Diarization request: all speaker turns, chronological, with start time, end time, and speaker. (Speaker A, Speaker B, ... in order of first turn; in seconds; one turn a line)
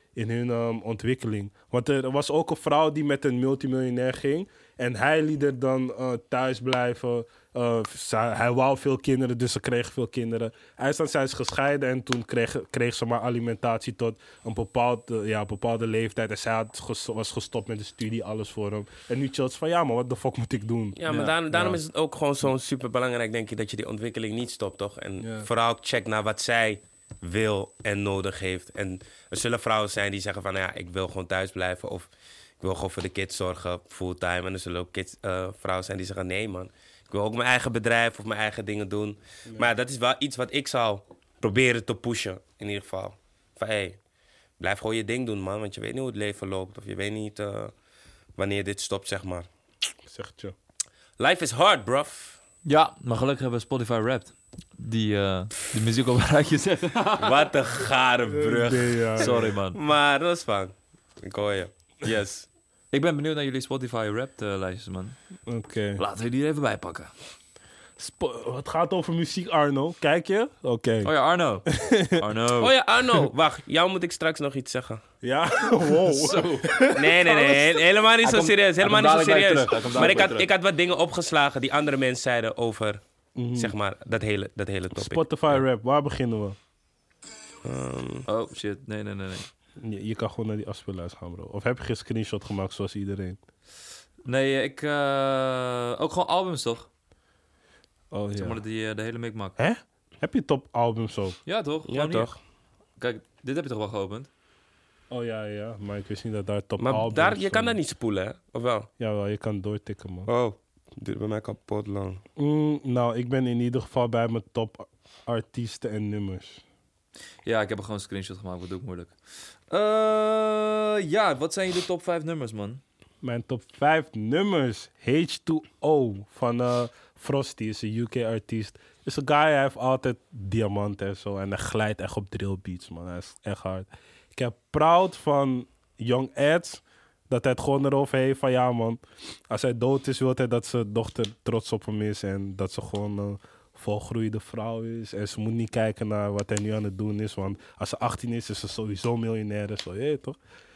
Speaker A: 0.1-21.8
Speaker B: 21.0-32.1
Speaker A: 25.2-25.5
Speaker B: 32.6-44.0
Speaker B: 44.6-47.7
Speaker B: 48.4-49.5
Speaker A: 50.1-50.5
Speaker B: 51.2-52.4
Speaker C: 52.6-57.5
Speaker B: 57.2-62.5
Speaker A: 58.3-59.3
Speaker C: 59.2-59.8
Speaker C: 62.9-65.1
Speaker A: 65.5-66.0
Speaker C: 66.0-67.1
Speaker A: 68.0-71.1
Speaker C: 71.0-72.7
Speaker A: 71.7-72.2
Speaker B: 72.6-75.0
Speaker A: 75.2-77.8
Speaker C: 76.0-76.8
Speaker B: 76.9-83.0
Speaker C: 78.2-80.5
Speaker A: 83.4-83.7
Speaker B: 83.5-85.6
Speaker A: 84.9-86.5
Speaker B: 87.6-88.2
Speaker C: 88.2-89.5
Speaker A: 89.8-93.4
Speaker C: 94.2-96.9
Speaker A: 98.1-98.6
Speaker C: 98.3-99.6
Speaker A: 99.6-101.4
Speaker C: 101.5-102.3
Speaker B: 101.9-102.4
Speaker C: 103.0-104.3
Speaker A: 105.1-107.8
Speaker B: 106.8-108.9
Speaker A: 109.0-110.3
Speaker B: 110.3-112.2
Speaker A: 112.4-116.6
Speaker C: 117.4-119.1
Speaker C: 119.7-122.8
Speaker A: 123.2-150.4